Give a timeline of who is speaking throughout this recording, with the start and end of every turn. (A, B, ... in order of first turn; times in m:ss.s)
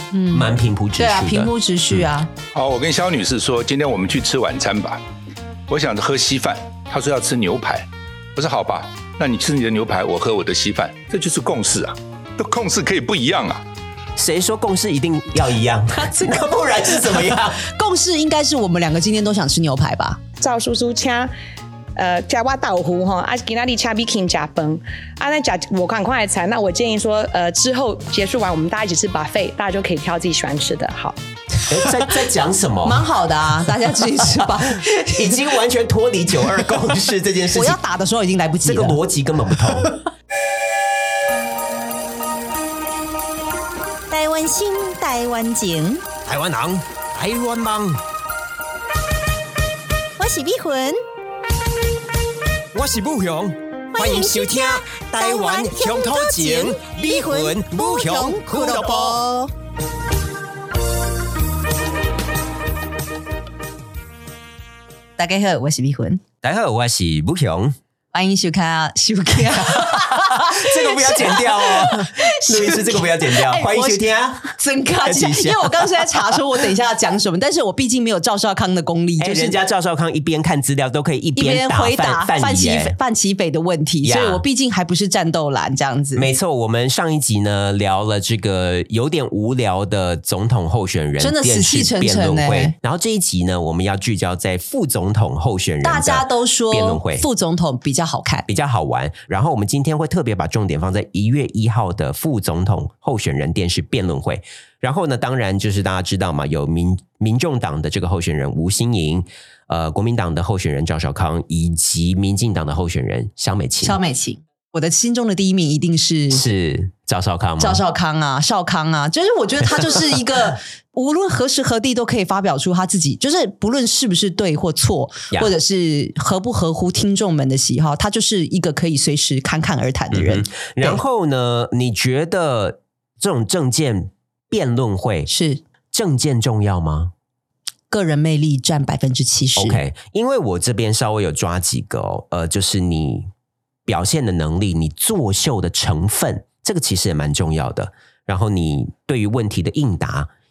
0:00.1-0:02.3 A
0:00.3-0:01.5 B
0:02.5-0:05.0 C
0:05.7-0:13.6 C
0:14.2-0:17.6 B
0:16.0-0:16.4 A
0:16.9-0:20.2 A
0:20.4-0:21.3 D
0:22.0-0:31.2 D
0:31.7-0:33.1 B
0:32.8-0:35.4 A
0:35.1-0:37.8 B
0:37.5-0:39.0 A
0:38.6-0:39.9 B
0:44.1-0:45.9 E
0:46.2-0:48.0 B
0:50.2-0:51.0 E
0:52.7-0:59.3 B
0:53.9-0:54.7 E
0:55.2-0:59.3 E
1:05.2-1:06.2 A
1:06.4-1:07.7 B
1:08.1-1:19.6 A
1:09.8-1:16.4 B
1:19.2-1:23.0 B
1:21.3-1:26.3 A
1:24.0-1:24.4 B
1:26.1-1:37.2 B
1:31.2-1:32.7 A
1:35.8-1:38.5 A
1:38.5-1:54.0 B
1:53.8-1:56.4 A
1:56.3-1:57.8 B
1:57.6-2:11.0 A
2:10.1-2:15.3 B
2:15.3-2:15.6 A
2:15.9-2:17.1 B
2:17.9-2:19.8 A
2:19.6-2:23.3 B
2:23.8-2:30.3 B